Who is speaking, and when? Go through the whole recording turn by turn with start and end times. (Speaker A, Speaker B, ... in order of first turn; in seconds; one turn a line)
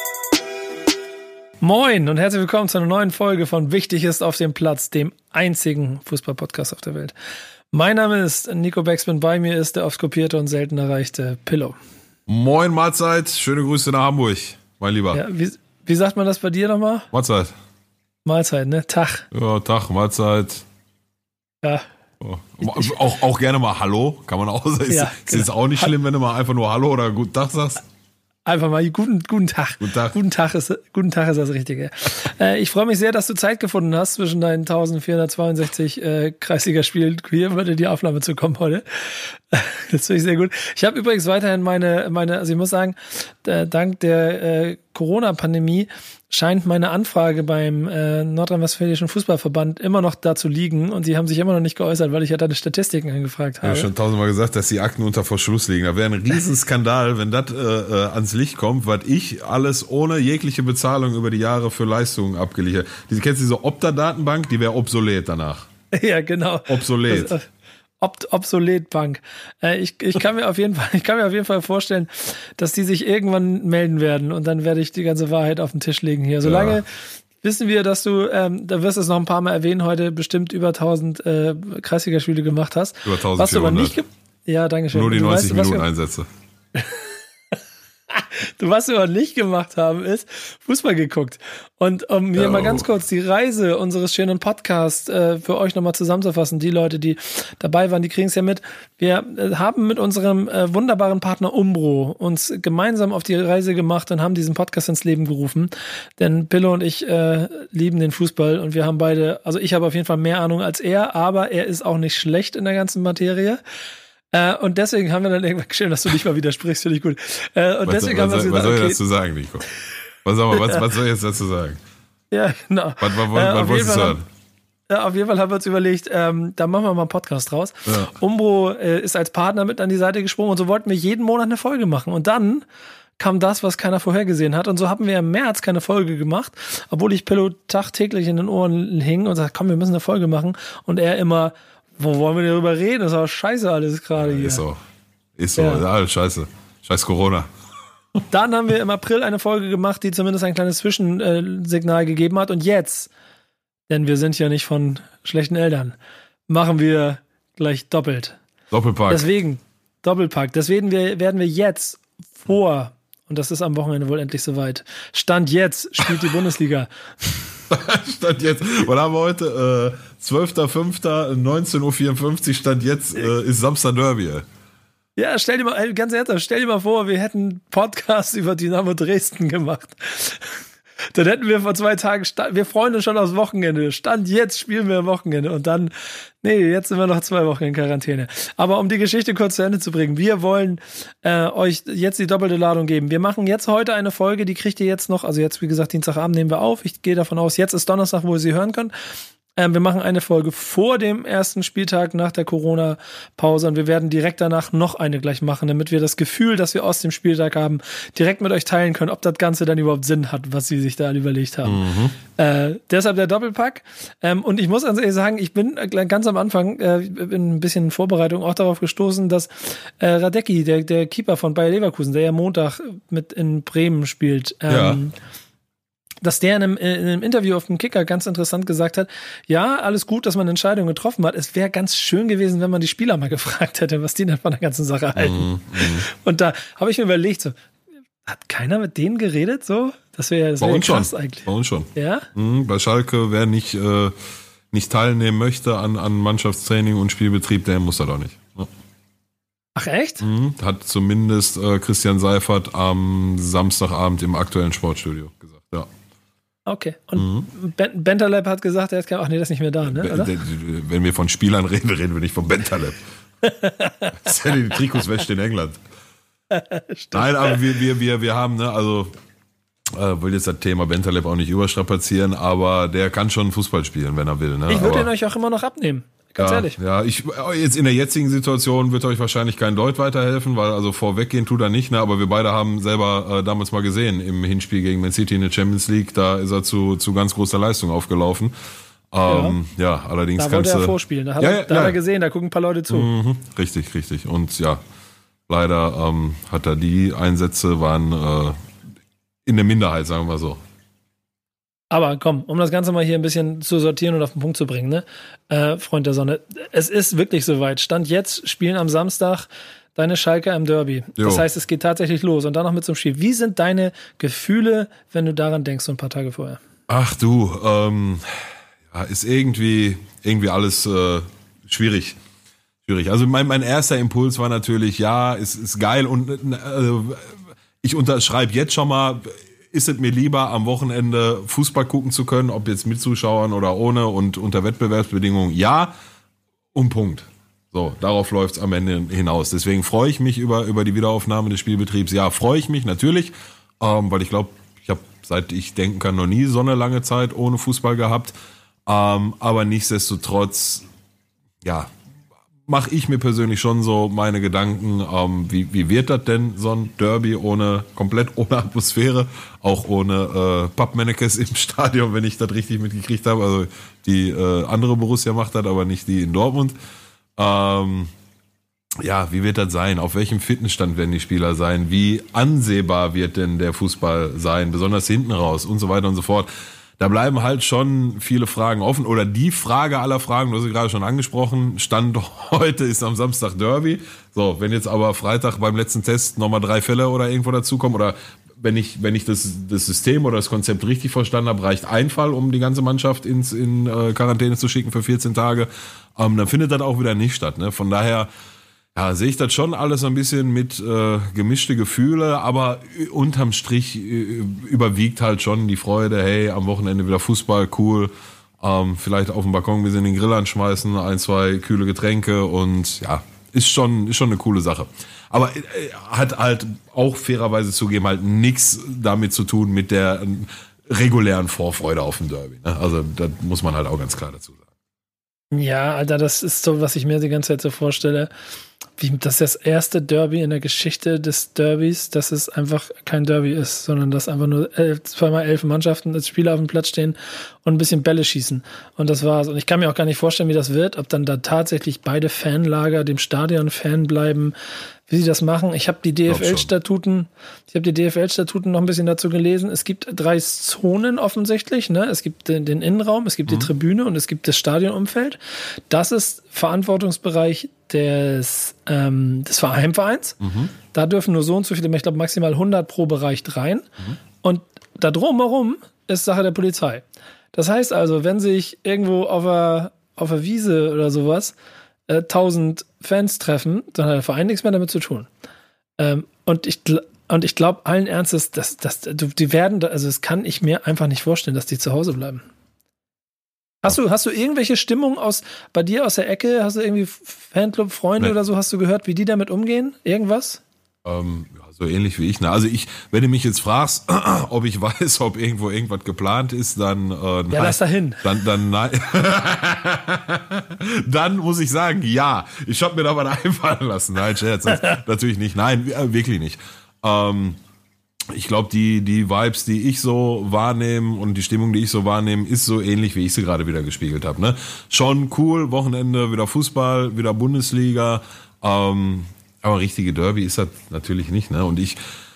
Speaker A: 1.6-7.1
Speaker A: 7.7-11.8
Speaker B: 12.3-15.2
Speaker A: 15.1-17.1
Speaker B: 17.1-17.5
Speaker A: 18.2-19.3
Speaker B: 19.3-20.6
Speaker B: 22.2-27.8
Speaker A: 22.6-22.9
Speaker A: 24.9-25.9
Speaker A: 28.5-53.9
Speaker B: 29.8-30.2
Speaker B: 53.6-65.7
Speaker A: 65.9-67.5
Speaker B: 66.7-67.3
Speaker A: 68.0-85.9
Speaker B: 76.4-76.8
Speaker B: 83.0-84.0
Speaker B: 84.9-86.3
Speaker A: 86.8-87.1
Speaker A: 88.1-113.6
Speaker B: 92.3-92.9
Speaker A: 114.3-119.0
Speaker B: 117.9-119.7
Speaker B: 120.2-121.8
Speaker A: 120.5-120.8
Speaker A: 122.3-124.2
Speaker B: 123.0-124.2
Speaker A: 124.9-132.7
Speaker B: 127.9-128.1
Speaker A: 133.2-144.6
Speaker B: 144.2-144.8
Speaker B: 145.4-147.5
Speaker A: 145.6-145.8
Speaker A: 148.3-153.1
Speaker A: 153.9-156.0
Speaker A: 156.5-158.4
Speaker B: 158.7-159.3
Speaker A: 159.1-166.9
Speaker B: 167.7-174.4
Speaker A: 175.2-198.9
Speaker A: 199.6-225.1
Speaker B: 211.6-212.2
Speaker B: 224.7-225.0
Speaker A: 226.2-237.6
Speaker B: 235.2-236.1
Speaker A: 238.3-242.3
Speaker B: 240.6-244.1
Speaker B: 244.7-248.7
Speaker A: 249.8-250.2
Speaker B: 250.2-255.9
Speaker A: 256.7-260.3
Speaker B: 257.2-257.5
Speaker B: 259.9-263.0
Speaker A: 263.4-264.3
Speaker B: 264.1-265.8
Speaker A: 266.5-267.6
Speaker B: 267.1-269.1
Speaker B: 269.9-275.1
Speaker A: 274.7-276.8
Speaker B: 276.4-288.5
Speaker B: 289.1-292.0
Speaker A: 289.3-289.6
Speaker A: 290.4-293.1
Speaker B: 292.9-294.8
Speaker B: 295.5-298.6
Speaker B: 299.5-300.6
Speaker A: 301.9-316.6
Speaker B: 311.2-311.5
Speaker B: 316.9-318.4
Speaker B: 318.9-322.2
Speaker B: 322.9-335.9
Speaker B: 336.7-348.3
Speaker B: 348.9-350.8
Speaker B: 351.6-351.9
Speaker B: 352.7-366.8
Speaker B: 367.4-368.1
Speaker B: 369.0-398.3
Speaker B: 398.9-424.6
Speaker A: 425.5-428.3
Speaker A: 429.0-444.6
Speaker A: 445.1-460.4
Speaker B: 446.3-446.7
Speaker B: 460.4-460.7
Speaker A: 460.9-463.9
Speaker A: 464.4-471.6
Speaker A: 472.1-475.3
Speaker A: 476.0-482.4
Speaker A: 483.8-490.6
Speaker B: 491.1-507.6
Speaker A: 497.5-498.2
Speaker A: 504.7-505.0
Speaker B: 508.3-522.0